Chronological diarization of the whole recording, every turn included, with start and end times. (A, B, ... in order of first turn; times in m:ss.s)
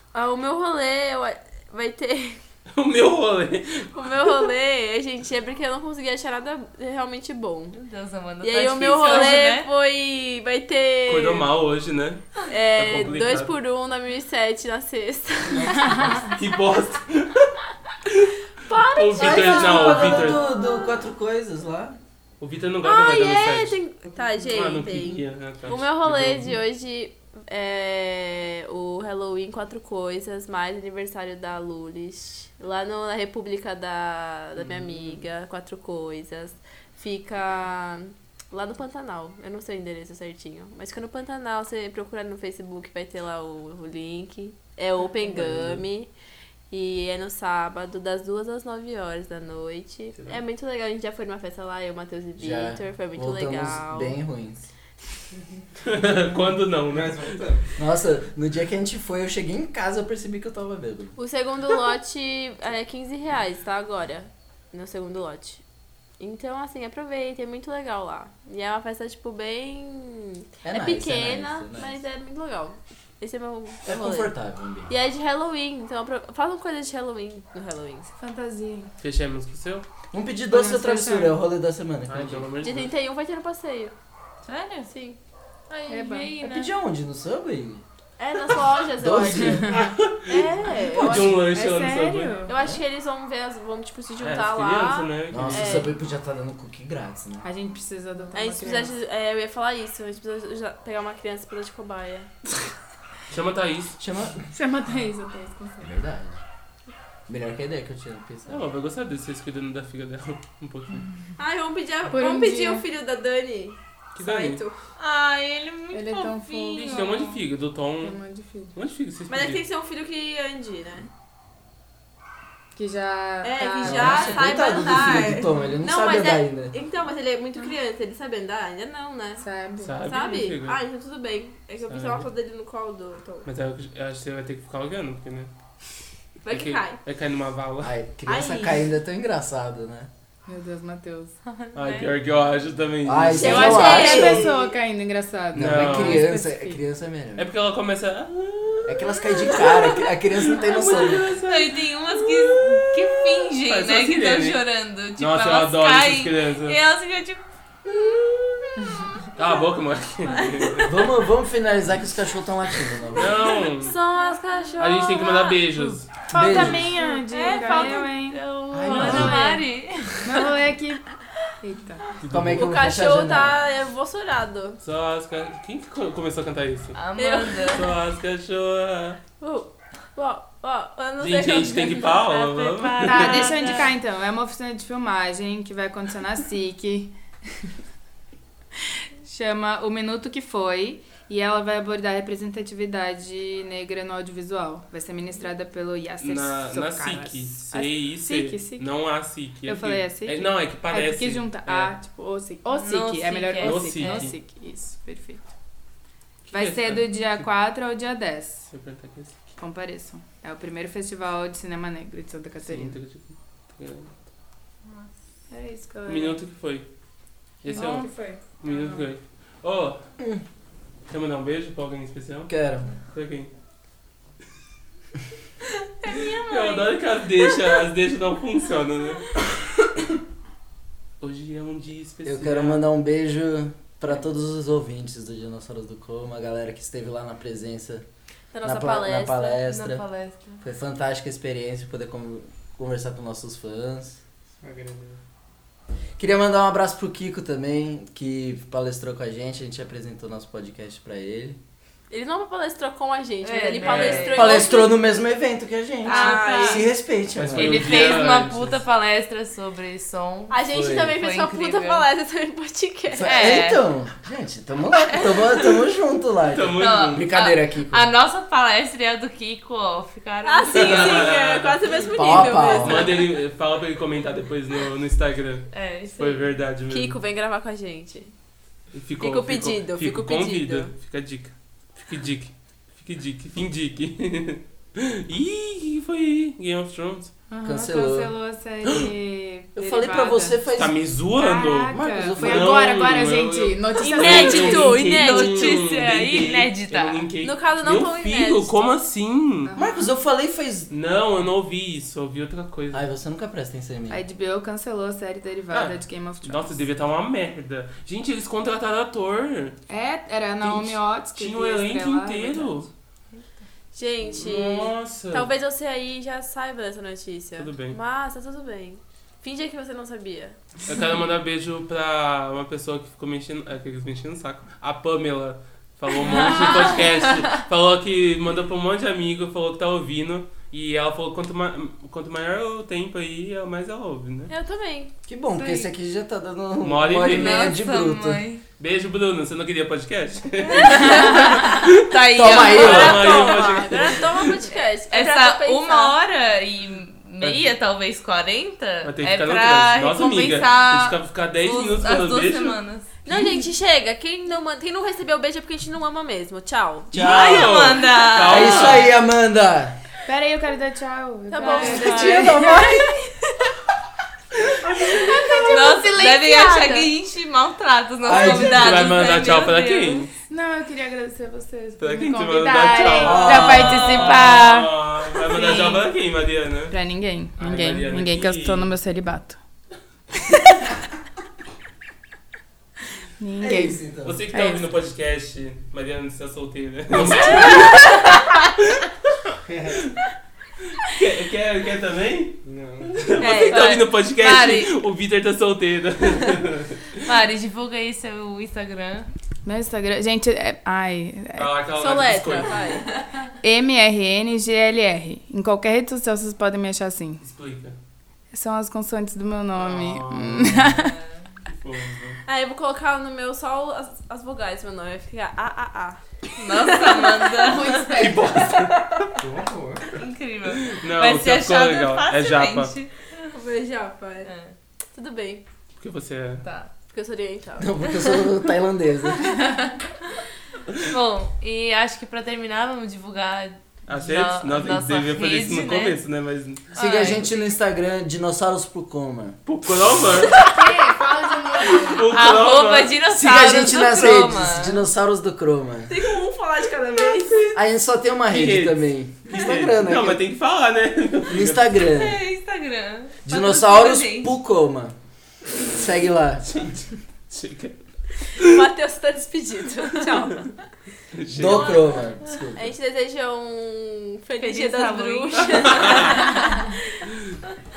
0:00.1-0:02.4 A
0:02.7-0:04.3 B
0:03.9-0:07.8 A
0:07.7-0:09.7 C
0:08.4-0:11.5 A
0:11.1-0:13.5 B
0:12.5-0:16.2 A
0:15.5-0:20.4 B
0:18.6-0:21.0 A
0:19.2-0:22.0 D
0:22.4-0:23.8 B
0:22.8-0:46.1 A
0:24.5-0:26.5 B
0:34.6-0:35.2 B
0:45.3-0:45.8 B
0:46.7-0:54.2 A
0:52.4-0:54.6 D
0:55.8-0:57.4 B
0:56.8-0:57.7 E
0:57.8-1:01.2 D
1:01.2-1:05.6 A
1:06.2-1:14.3 A
1:10.6-1:12.0 D
1:13.8-1:14.9 D
1:14.9-1:18.1 A
1:18.2-1:18.9 F
1:19.0-1:19.8 B
1:20.1-1:22.5 D
1:20.5-1:21.4 F
1:22.1-1:22.9 B
1:22.6-1:23.9 A
1:24.4-1:24.9 C
1:24.9-1:25.2 A
1:25.7-1:26.7 C
1:25.9-1:26.3 F
1:26.4-1:27.8 D
1:28.2-1:31.5 A
1:29.0-1:29.7 D
1:29.6-1:29.9 F
1:29.7-1:30.4 B
1:31.0-1:32.4 B
1:31.0-1:32.5 F
1:32.4-1:35.9 A
1:34.2-1:35.9 B
1:35.3-1:37.5 D
1:37.4-1:38.9 F
1:38.3-1:42.3 A
1:43.3-1:44.0 B
1:44.0-1:44.5 D
1:44.5-1:45.9 F
1:45.8-1:46.4 D
1:47.3-1:48.7 D
1:48.5-1:51.1 B
1:51.4-1:54.8 A
1:52.1-1:52.8 F
1:54.2-1:54.6 B
1:55.0-1:57.4 C
1:55.9-1:57.0 F
1:56.7-1:58.2 B
1:58.0-1:58.8 F
1:58.7-1:59.6 B
1:59.3-2:01.1 A
2:02.8-2:04.3 F
2:03.4-2:09.4 A
2:03.8-2:06.7 D
2:09.4-2:10.0 F
2:09.8-2:10.8 B
2:10.0-2:13.5 A
2:11.9-2:12.2 D
2:13.4-2:15.5 B
2:16.4-2:17.0 A
2:16.5-2:18.0 B
2:17.8-2:20.1 D
2:18.3-2:18.9 A
2:20.4-2:21.4 F
2:21.5-2:22.1 C
2:21.7-2:24.3 B
2:23.0-2:24.5 D
2:23.4-2:24.7 A
2:23.5-2:26.8 F
2:25.5-2:27.5 D
2:25.6-2:26.2 B
2:27.4-2:34.6 B
2:28.9-2:31.4 D
2:31.4-2:37.4 C
2:35.2-2:36.8 B
2:39.4-2:41.0 B
2:40.4-2:41.0 A
2:40.8-2:43.4 D
2:43.2-2:44.0 B
2:43.2-2:45.6 A
2:44.3-2:44.8 C
2:44.8-2:46.8 B
2:46.3-2:46.9 D
2:46.3-2:48.4 F
2:47.1-2:50.5 C
2:47.3-2:48.0 A
2:48.7-2:49.4 D
2:48.9-2:49.5 F
2:48.9-2:49.6 A
2:48.9-2:49.4 B
2:50.2-2:51.1 F
2:51.6-2:52.1 F
2:52.2-2:52.7 B
2:52.3-2:53.6 D
2:52.5-2:54.8 A
2:54.8-2:57.0 B
2:56.9-2:57.9 C
2:57.2-2:57.8 A
2:57.6-2:59.2 B
2:59.4-3:02.6 A
3:01.2-3:03.8 B
3:02.4-3:03.9 C
3:03.0-3:07.2 F
3:09.2-3:18.9 F
3:16.2-3:21.9 B
3:19.6-3:25.5 F
3:22.7-3:24.3 C
3:23.6-3:24.4 B
3:26.5-3:27.4 B
3:26.5-3:28.7 F
3:28.7-3:29.4 B
3:29.6-3:33.0 F
3:32.6-3:34.2 B
3:35.5-3:36.4 F
3:36.1-3:36.9 B
3:37.6-3:40.0 B
3:37.7-3:39.0 F
3:41.1-3:42.5 B
3:42.5-3:42.9 D
3:43.1-3:43.5 B
3:46.0-3:47.6 C
3:46.1-3:49.4 B
3:51.2-3:52.9 B
3:52.3-3:58.0 D
3:58.5-3:59.6 A
3:58.6-4:00.1 D
3:59.6-4:00.6 C
4:00.6-4:04.2 D
4:04.6-4:05.2 E
4:06.2-4:11.6 D
4:12.1-4:15.1 A
4:13.4-4:14.7 C
4:13.8-4:14.3 B
4:14.3-4:18.0 D
4:16.0-4:16.9 C
4:16.0-4:16.9 A
4:17.4-4:18.8 B
4:17.5-4:22.1 C
4:20.5-4:23.5 A
4:20.7-4:21.1 D
4:23.1-4:28.1 D
4:23.2-4:23.8 C
4:26.5-4:27.3 B
4:26.8-4:31.4 C
4:30.4-4:33.3 A
4:30.7-4:37.2 B
4:32.1-4:33.1 D
4:35.7-4:36.2 C
4:36.2-4:38.3 A
4:38.9-4:47.3 B
4:39.2-4:40.9 A
4:47.5-4:50.7 F
4:47.6-4:48.3 D
4:49.8-4:50.9 D
4:50.8-4:59.7 B
4:51.3-4:55.0 F
4:51.9-4:52.8 D
4:54.0-4:55.8 A
4:54.2-4:57.3 C
4:57.4-4:58.7 A
4:59.7-5:00.2 F
4:59.7-5:00.9 D
5:00.9-5:03.1 B
5:02.9-5:04.2 D
5:04.1-5:06.8 F
5:05.7-5:09.8 B
5:09.9-5:12.8 F
5:10.6-5:12.9 B
5:13.9-5:20.6 A
5:14.3-5:15.5 B
5:17.6-5:18.0 B
5:20.9-5:34.5 B
5:26.2-5:27.4 C
5:34.5-5:35.1 A
5:35.3-5:38.4 D
5:35.5-5:35.9 C
5:36.8-5:37.8 B
5:37.2-5:38.6 C
5:38.8-5:44.6 B
5:40.7-5:44.1 C
5:42.3-5:43.3 D
5:42.6-5:46.2 A
5:45.1-5:53.4 C
5:47.4-5:47.7 B
5:49.0-5:52.8 B
5:53.2-5:57.1 A
5:57.1-6:00.0 D
5:57.1-5:59.1 C
5:57.1-5:59.1 B
6:00.2-6:03.1 F
6:01.5-6:03.5 A
6:01.6-6:02.8 C
6:02.0-6:03.1 D
6:04.9-6:06.4 F
6:05.1-6:07.1 A
6:05.6-6:10.3 C
6:08.2-6:09.1 D
6:08.3-6:10.3 B
6:10.5-6:16.0 F
6:12.0-6:16.9 B
6:13.1-6:14.3 D
6:14.3-6:14.8 C
6:15.5-6:16.0 C
6:16.9-6:19.6 F
6:17.6-6:18.9 B
6:23.4-6:24.0 F
6:23.6-6:24.4 D
6:24.2-6:29.3 B
6:24.5-6:24.8 F
6:27.5-6:28.5 C
6:29.6-6:30.0 E
6:30.9-6:37.1 B
6:32.6-6:33.3 E
6:33.4-6:33.9 A
6:33.5-6:34.9 C
6:37.2-6:39.3 C
6:39.6-6:41.7 F
6:41.6-6:43.0 B
6:42.0-6:43.1 A
6:43.1-6:43.5 C
6:43.6-6:47.4 F
6:47.4-6:47.9 B
6:48.5-6:51.2 F
6:49.8-6:51.0 B
6:50.9-6:51.4 C
6:51.7-6:52.4 B
6:52.4-6:56.2 A
6:56.6-6:58.3 C
6:56.9-6:57.5 A
6:57.6-6:58.6 F
6:58.0-6:59.4 B
6:59.4-7:00.1 E
7:00.1-7:03.5 C
7:00.7-7:02.9 B
7:03.5-7:04.5 A
7:04.4-7:04.7 C
7:05.1-7:05.6 A
7:06.0-7:06.6 B
7:06.6-7:06.9 C
7:07.1-7:08.4 A
7:07.8-7:09.8 D
7:09.5-7:10.0 C
7:11.0-7:16.2 C
7:14.1-7:16.9 B
7:16.9-7:17.6 C
7:17.0-7:19.6 D
7:19.6-7:20.6 B
7:20.6-7:22.2 F
7:22.0-7:25.0 C
7:22.0-7:23.2 B
7:23.3-7:26.1 D
7:26.1-7:27.7 A
7:27.2-7:27.8 B
7:27.7-7:30.4 D
7:28.5-7:32.1 B
7:31.5-7:32.4 D
7:32.0-7:34.5 C
7:33.4-7:35.2 D
7:35.8-7:36.6 D
7:36.6-7:38.8 B
7:38.5-7:40.8 A
7:41.3-7:42.0 B
7:41.5-7:42.9 D
7:41.6-7:47.0 A
7:44.6-7:46.9 C
7:45.7-7:46.5 B